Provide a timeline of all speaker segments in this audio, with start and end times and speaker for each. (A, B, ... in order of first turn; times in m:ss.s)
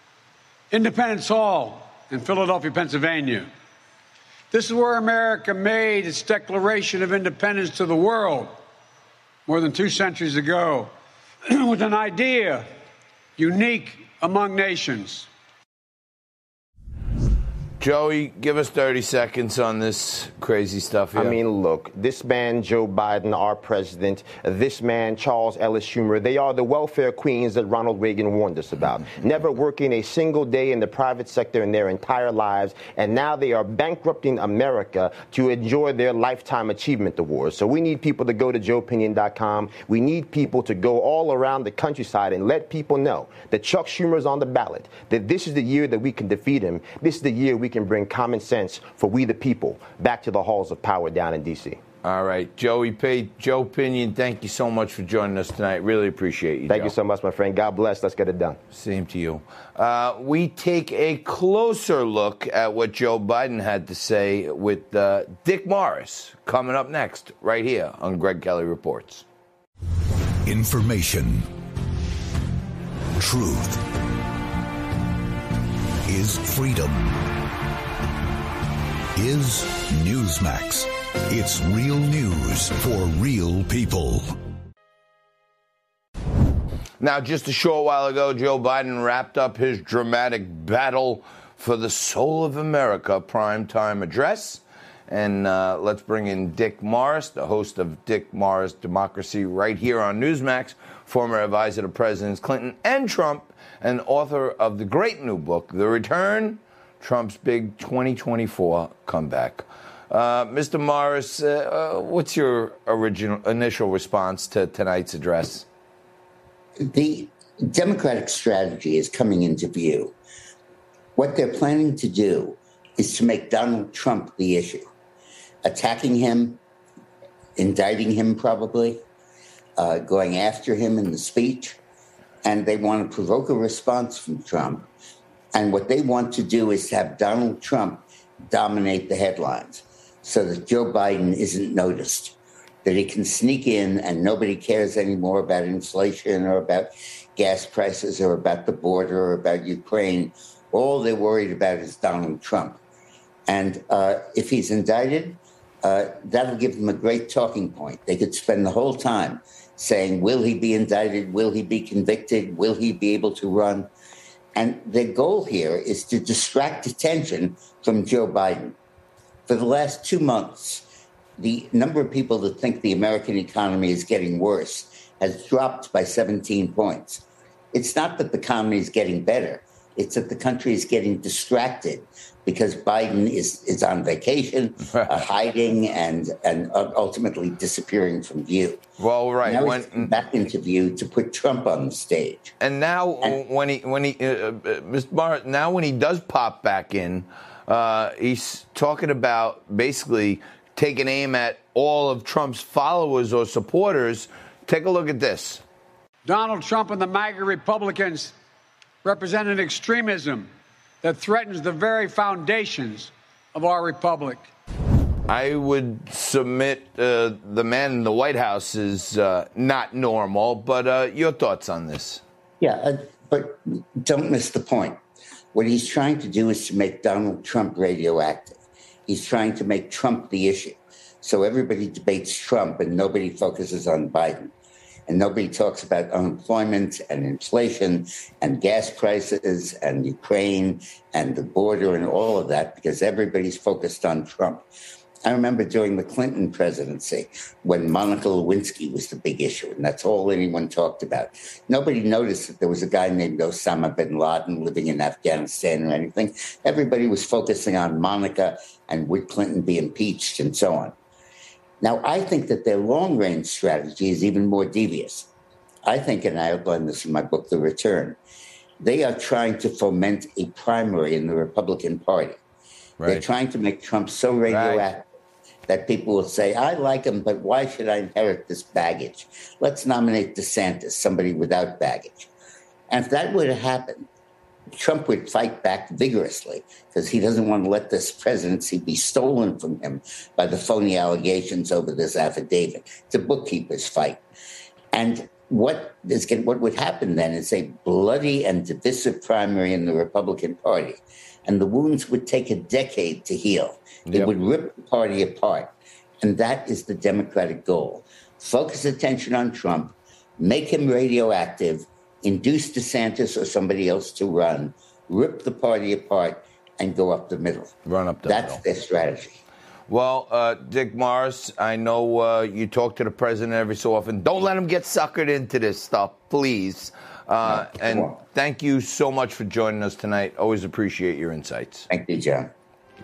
0:00.7-0:03.5 A
0:04.5-0:08.6 A
0:09.5-0:10.9 A
0:11.5-0:12.7 A
0:13.4-0:15.3 A
0:17.8-0:21.4 B
0:21.1-0:51.8 C
0:52.0-0:57.0 B
0:56.7-0:58.6 C
0:58.7-1:09.2 B
1:10.4-1:11.5 D
1:13.2-1:13.8 D
1:16.1-1:17.1 D
1:19.2-1:24.3 D
1:27.0-1:55.6 B
1:56.8-2:00.1 E
2:01.2-2:04.8 E
2:05.6-2:06.6 E
2:07.6-2:09.0 E
2:09.8-2:11.8 E
2:12.4-2:14.9 E
2:15.5-2:32.8 E
2:33.5-2:43.9 E
2:44.6-2:48.8 E
2:49.5-2:50.9 E
2:51.4-3:08.8 E
3:04.9-3:05.2 B
3:09.0-3:10.1 B
3:09.4-3:12.5 E
3:12.6-3:25.6 B
3:26.2-3:28.3 A
3:29.0-3:30.5 A
3:31.0-3:34.5 A
3:35.3-3:42.2 B
3:42.6-3:45.0 E
3:45.5-3:48.6 E
3:49.1-3:54.5 E
3:55.1-4:04.6 E
4:05.2-4:20.9 E
4:21.8-4:25.3 E
4:25.8-4:28.2 E
4:28.8-4:32.4 E
4:33.0-4:35.1 E
4:34.5-4:34.8 B
4:35.7-4:42.3 E
4:42.9-4:44.1 E
4:44.7-4:54.2 E
4:54.9-5:19.4 E
5:04.0-5:04.3 B
5:17.9-5:18.6 B
5:19.9-5:31.9 B
5:27.4-5:28.1 E
5:31.9-5:32.5 E